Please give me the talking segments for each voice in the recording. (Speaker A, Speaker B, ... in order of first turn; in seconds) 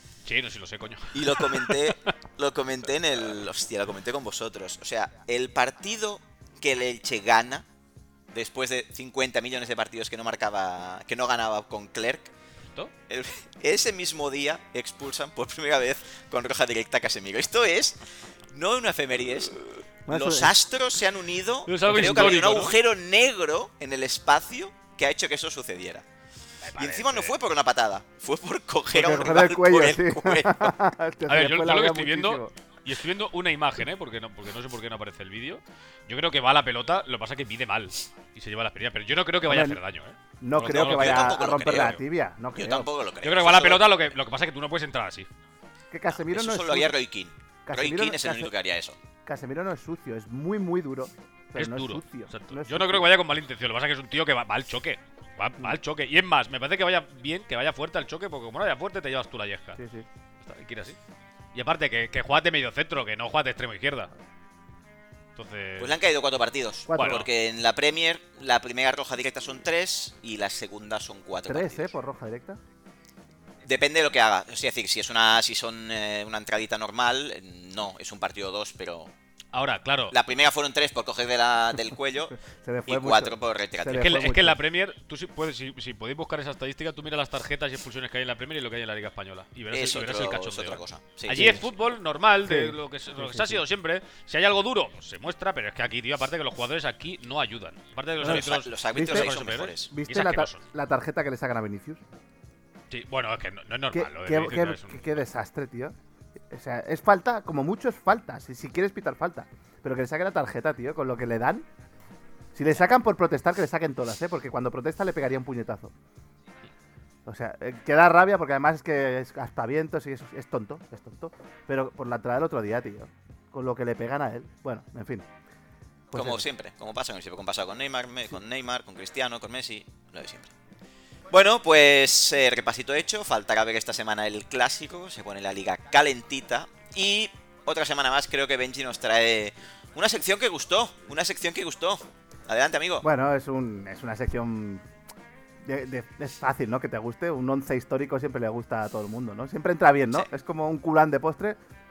Speaker A: 0.2-2.1, 21.6-22.8, 26.6-27.3, 31.3-41.9, 43.2-45.3, 51.5-59.8, 60.4-61.0, 61.5-64.1, 65.3-65.9, 66.9-67.3, 79.5-80.1, 84.0-100.6, 102.9-105.2
Speaker B: 1.1-7.7, 8.3-12.3, 13.1-26.0, 26.8-30.7, 40.7-42.0, 42.5-43.9, 46.1-49.0, 65.8-71.9, 73.6-79.1, 80.1-82.3, 82.9-84.1, 89.7-91.5, 98.2-99.9, 126.1-130.5, 131.3-143.1
Speaker C: 20.1-20.5, 28.9-32.5, 39.5-39.8, 40.4-42.9, 45.9-46.9, 47.6-48.5, 49.2-53.1, 59.8-60.0, 66.9-67.2, 71.5-72.6, 82.4-84.6, 91.3-91.7, 92.4-93.6, 98.2-99.3, 99.8-102.0, 103.9-105.9, 106.5-111.7, 112.5-115.9, 117.2-125.2, 126.1-126.4, 143.0-144.8, 145.6-151.6